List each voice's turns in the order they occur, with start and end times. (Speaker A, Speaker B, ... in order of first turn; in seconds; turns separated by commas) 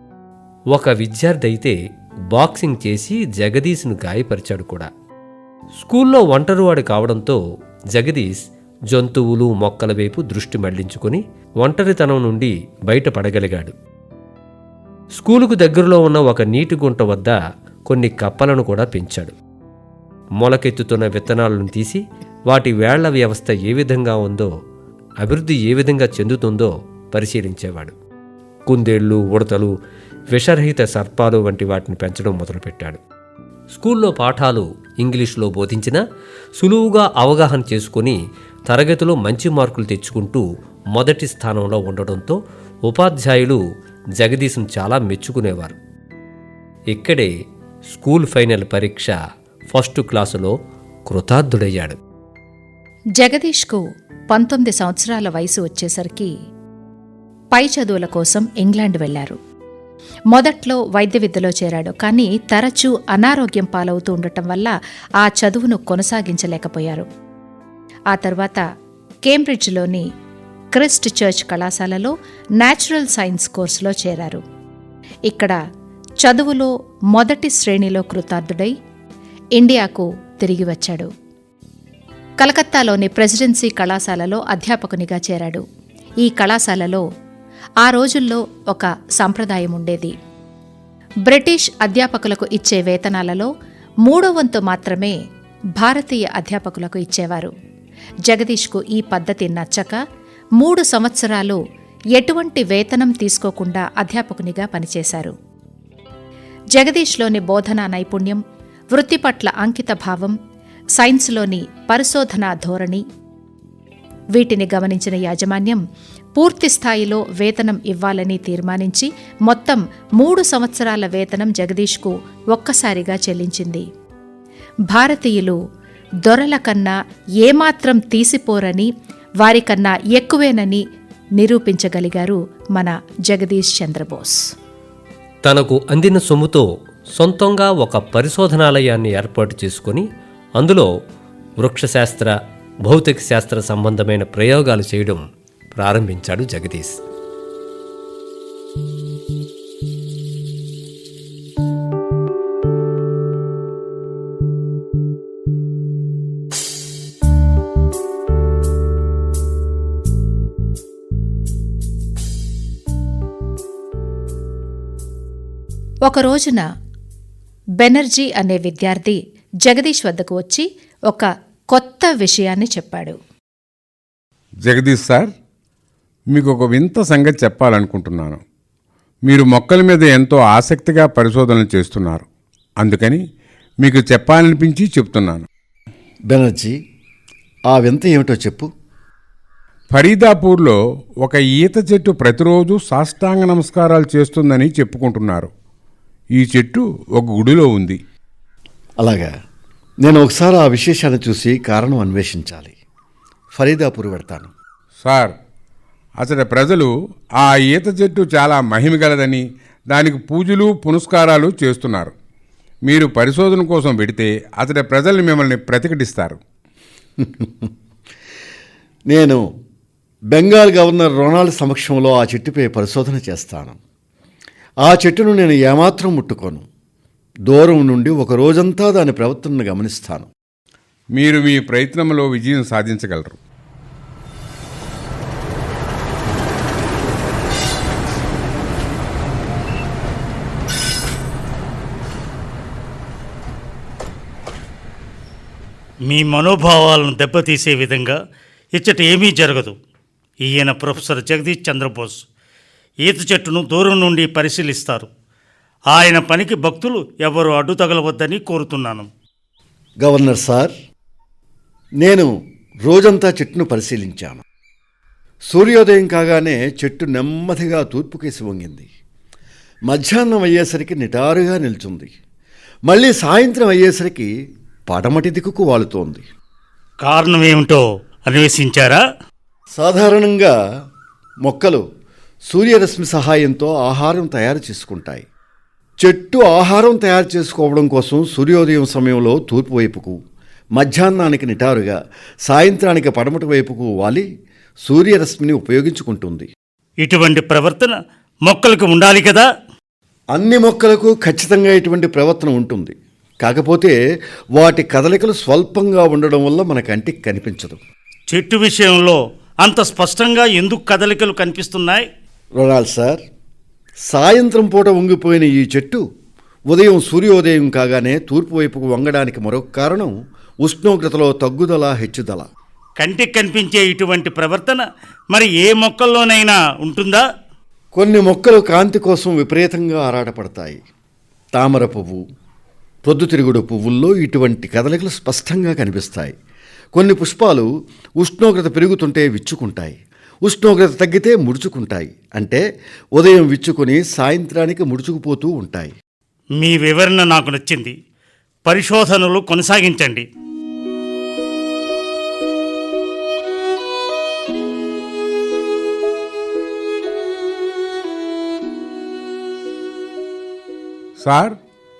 Speaker A: 0.7-1.8, Speaker A: 2.3-4.9, Speaker A: 5.8-7.4, Speaker A: 7.9-13.8, Speaker A: 15.2-17.4, Speaker A: 17.9-19.4, Speaker A: 20.4-24.5, Speaker A: 25.2-27.9, Speaker A: 28.7-29.7, Speaker A: 30.3-33.0, Speaker A: 33.8-36.0, Speaker A: 36.6-38.2, Speaker A: 38.7-40.4, Speaker A: 40.9-43.6, Speaker A: 44.2-45.8, Speaker A: 46.9-47.3, Speaker A: 47.9-49.1, Speaker A: 49.7-50.5, Speaker A: 51.1-52.0, Speaker B: 53.2-56.3, Speaker B: 57.5-59.4, Speaker B: 60.3-67.1, Speaker B: 68.1-68.6, Speaker B: 69.2-70.1, Speaker B: 70.8-74.4, Speaker B: 75.3-75.6, Speaker B: 76.2-78.8, Speaker B: 79.6-81.1, Speaker B: 82.4-85.6, Speaker B: 86.2-87.0, Speaker B: 87.8-90.1, Speaker B: 91.3-93.5, Speaker B: 94.0-95.2, Speaker B: 95.8-97.5, Speaker B: 98.3-100.0, Speaker B: 100.6-101.6, Speaker B: 102.2-105.3, Speaker B: 106.8-108.4, Speaker B: 108.9-110.4, Speaker B: 111.0-113.0, Speaker B: 114.3-115.8, Speaker B: 116.4-123.9, Speaker B: 124.9-125.6, Speaker B: 126.2-128.9, Speaker B: 129.4-130.8, Speaker B: 131.4-134.4, Speaker A: 135.4-140.1, Speaker A: 140.6-140.9, Speaker A: 141.6-142.3, Speaker A: 142.9-145.2, Speaker A: 145.8-147.0, Speaker B: 166.1-166.7, Speaker B: 167.8-173.2, Speaker C: 174.7-175.3, Speaker C: 176.3-178.4, Speaker C: 179.2-182.2, Speaker C: 182.8-183.2, Speaker C: 183.8-185.4, Speaker D: 186.3-186.8, Speaker D: 187.7-188.7, Speaker C: 189.9-195.5, Speaker C: 196.3-198.0, Speaker D: 199.0-199.3, Speaker D: 200.0-202.7, Speaker D: 203.6-204.5, Speaker C: 205.0-205.3, Speaker C: 206.2-212.1, Speaker C: 212.9-216.4, Speaker D: 217.2-217.7, Speaker D: 219.1-219.4, Speaker D: 220.3-223.8, Speaker D: 224.8-226.6, Speaker D: 227.5-230.3, Speaker C: 231.2-233.4, Speaker E: 246.1-248.2, Speaker E: 248.8-249.8, Speaker E: 250.4-252.2, Speaker E: 253.0-255.1, Speaker E: 255.9-259.1, Speaker D: 260.0-260.7, Speaker D: 262.0-262.3, Speaker D: 262.8-264.4, Speaker D: 265.5-268.9, Speaker D: 269.9-272.1, Speaker D: 272.9-274.3, Speaker D: 274.9-276.2, Speaker E: 277.0-279.0, Speaker D: 279.8-280.5, Speaker D: 281.4-281.9, Speaker D: 282.5-285.3, Speaker D: 286.0-290.2, Speaker D: 290.8-294.2, Speaker D: 294.9-296.5, Speaker E: 297.0-297.9, Speaker E: 298.5-299.4, Speaker D: 300.3-303.9, Speaker D: 304.6-307.8, Speaker E: 308.3-312.0, Speaker D: 312.6-313.2, Speaker D: 314.1-316.0, Speaker D: 316.7-320.1, Speaker D: 320.6-322.5, Speaker E: 323.0-327.2, Speaker D: 327.9-330.8, Speaker D: 331.5-332.2, Speaker D: 333.0-336.3, Speaker D: 336.9-342.6, Speaker D: 343.1-345.9, Speaker E: 346.6-347.9, Speaker E: 348.6-350.2, Speaker C: 361.2-361.6